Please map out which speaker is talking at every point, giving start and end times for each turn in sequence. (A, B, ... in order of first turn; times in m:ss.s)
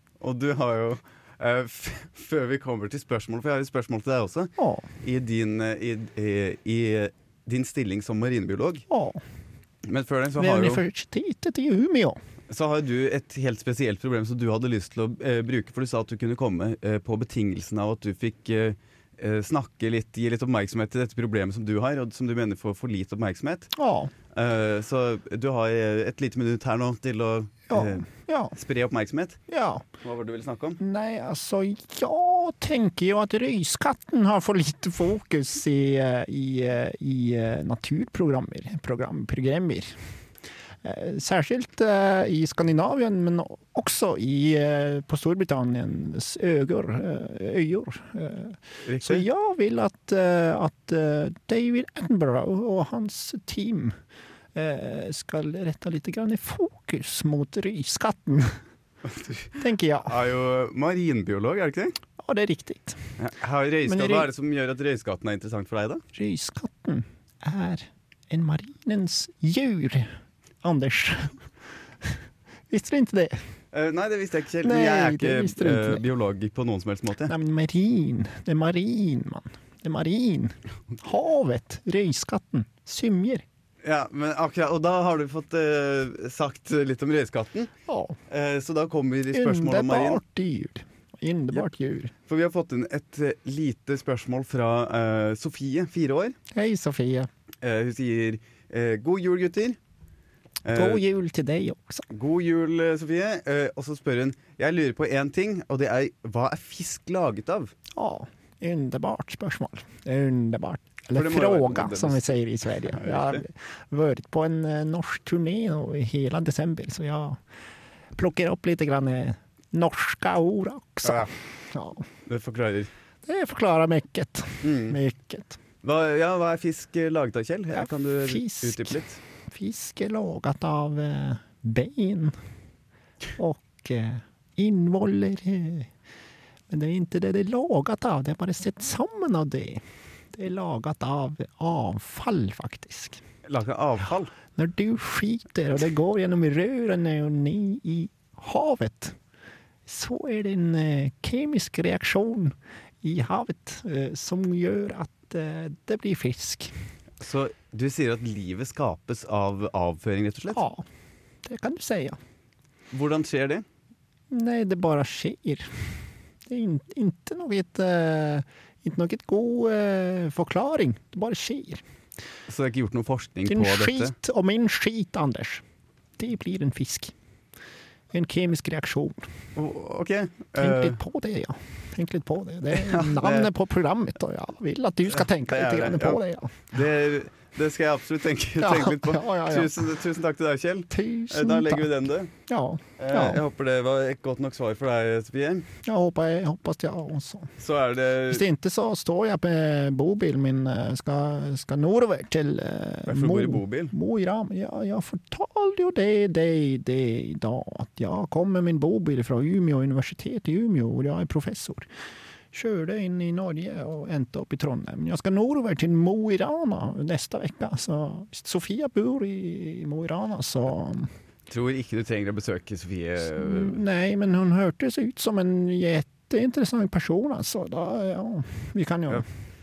0:00.2-0:08.8 A
0:04.6-0:04.8 B
0:08.9-0:09.2 B
0:09.8-0:10.8 A
0:10.4-0:12.2 B
0:12.5-0:23.7 A
0:23.7-0:24.1 B
0:24.3-0:29.4 A
0:27.7-0:28.5 B
0:29.5-0:29.8 B
0:30.0-0:30.8 A
0:30.8-0:40.0 B
0:40.8-0:54.0 B
0:48.8-0:49.2 A
0:54.5-0:58.6 B
0:59.0-1:02.0 A
0:59.6-1:00.2 B
1:02.2-1:03.1 B
1:03.2-1:06.0 A
1:03.8-1:04.3 B
1:06.1-1:11.4 B
1:12.7-1:13.4 B
1:13.7-1:17.3 A
1:14.6-1:16.0 B
1:17.3-1:23.4 B
1:23.8-1:27.7 A
1:27.9-1:28.2 B
1:28.3-1:30.2 A
1:29.3-1:32.1 B
1:32.3-1:36.4 A
1:36.5-1:37.3 B
1:37.6-1:39.8 A
1:40.6-1:41.0 A
1:40.7-1:42.0 B
1:42.1-1:47.7 A
1:48.0-1:57.4 B
1:51.1-1:53.4 A
1:58.1-2:02.0 B
2:01.0-2:01.3 A
2:02.2-2:02.9 A
2:03.2-2:05.6 B
2:04.6-2:05.0 A
2:05.8-2:09.2 A
2:07.7-2:09.0 B
2:09.5-2:12.4 B
2:13.4-2:15.9 B
2:16.7-2:19.8 B
2:20.3-2:23.2 B
2:23.4-2:24.3 A
2:24.6-2:29.2 B
2:29.8-2:36.7 B
2:37.2-2:40.6 A
2:40.5-2:40.8 B
2:41.4-2:42.2 B
2:42.9-2:43.6 A
2:44.3-2:45.9 B
2:46.5-2:51.8 B
2:52.5-2:54.1 A
2:53.4-2:55.6 B
2:56.2-2:57.1 B
2:58.1-2:59.3 B
2:59.6-3:01.0 A
3:00.6-3:06.6 B
3:02.7-3:03.5 A
3:05.1-3:12.3 A
3:08.6-3:09.8 B
3:10.9-3:11.9 B
3:12.5-3:13.4 B
3:13.0-3:15.7 A
3:15.8-3:17.5 B
3:17.6-3:18.4 A
3:18.3-3:31.9 B
3:23.0-3:23.9 A
3:32.5-3:41.1 B
3:41.5-3:43.8 A
3:43.3-3:49.2 B